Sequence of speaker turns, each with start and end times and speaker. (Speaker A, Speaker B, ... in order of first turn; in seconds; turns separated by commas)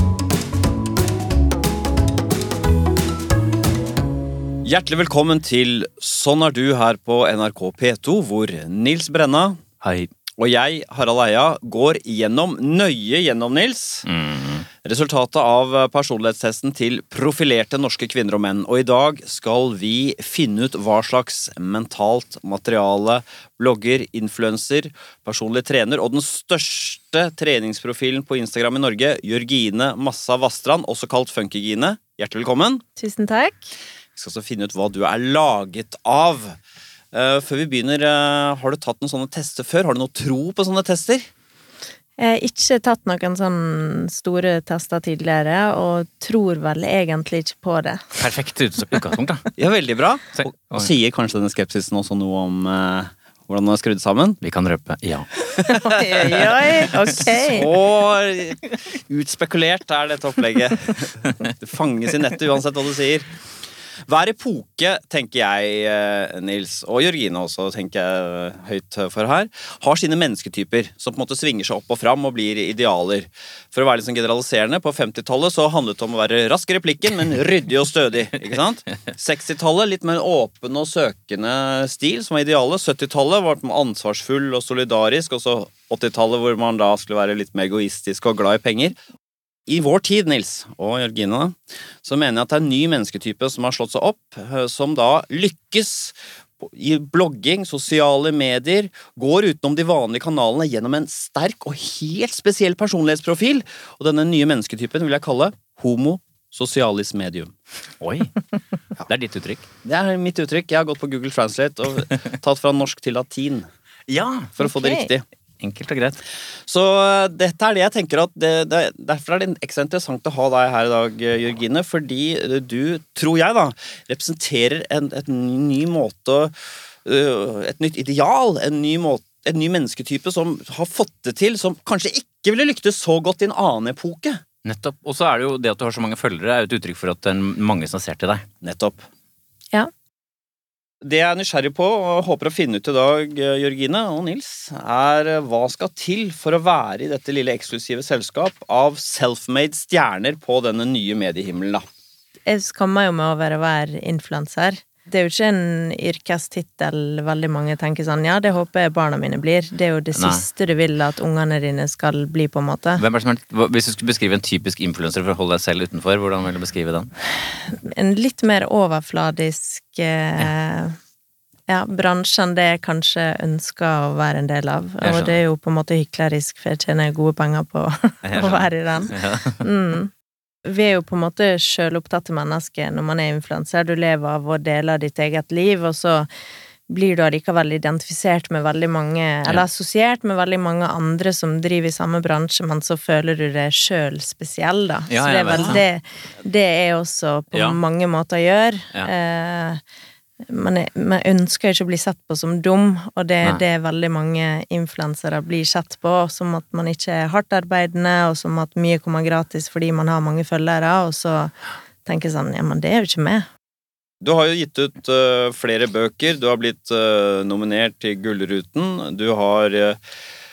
Speaker A: 4.6-9.6, Speaker B: 9.8-10.1, Speaker A: 10.4-14.1, Speaker B: 14.1-14.7, Speaker A: 14.8-32.8, Speaker C: 33.0-33.7, Speaker A: 34.2-36.6, Speaker A: 37.1-41.3, Speaker C: 42.2-48.2, Speaker B: 48.2-49.5, Speaker A: 49.6-54.4, Speaker B: 50.4-50.9, Speaker B: 54.4-55.3, Speaker A: 55.6-56.3, Speaker C: 55.7-57.7, Speaker A: 57.4-63.3, Speaker A: 64.1-89.0, Speaker A: 89.7-107.5, Speaker B: 108.0-108.3, Speaker B: 109.1-109.7, Speaker A: 109.8-113.7, Speaker B: 114.1-114.5, Speaker A: 114.6-115.2, Speaker C: 114.6-115.1, Speaker B: 115.6-116.2, Speaker A: 116.7-126.5, Speaker A: 127.0-134.4, Speaker B: 134.7-138.5, Speaker A: 138.6-139.0, Speaker A: 141.0-151.8, Speaker C: 152.5-163.0, Speaker B: 160.2-160.4, Speaker B: 163.0-167.1, Speaker C: 167.7-171.0, Speaker C: 171.7-180.1, Speaker B: 175.0-175.4, Speaker B: 178.2-179.6, Speaker C: 180.6-186.3, Speaker C: 186.9-199.8, Speaker B: 195.1-195.8, Speaker B: 197.5-197.8, Speaker C: 200.4-211.5, Speaker C: 212.1-213.5, Speaker A: 214.2-220.0